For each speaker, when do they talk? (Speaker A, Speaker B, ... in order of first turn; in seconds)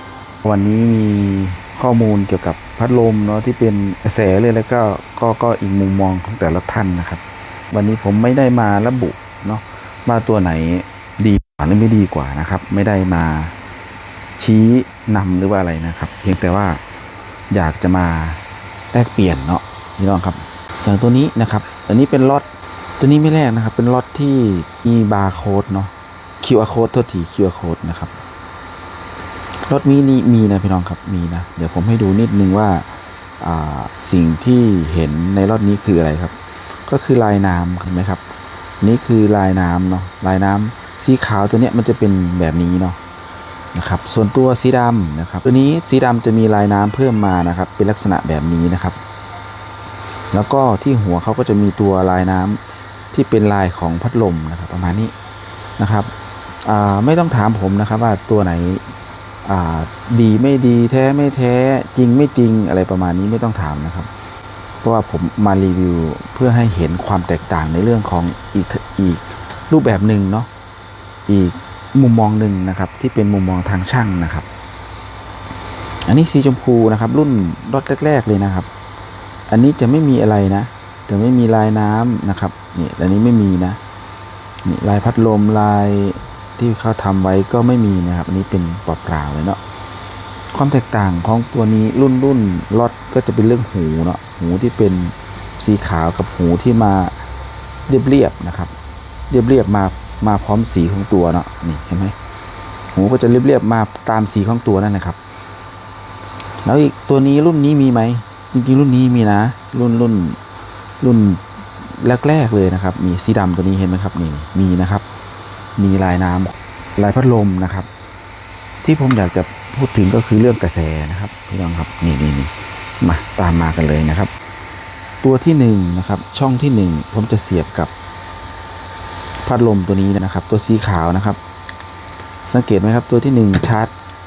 Speaker A: 0.4-13.5, 14.4-16.8, 17.5-18.4, 18.9-22.5, 23.0-28.1, 29.7-32.9, 33.4-36.3, 36.9-38.2, 38.8-43.0, 43.7-49.0, 50.3-52.6, 53.1-55.1, 55.8-56.1, 56.6-58.8, 59.4-64.1, 64.8-70.5, 71.3-74.5, 76.0-78.7, 79.5-83.8, 84.6-89.6, 90.5-97.2, 97.8-98.7, 99.3-102.1, 102.9-105.2, 106.6-110.4, 111.0-115.0, 115.8-117.9, 118.8-124.3, 125.2-127.9, 129.4-131.4, 132.4-133.9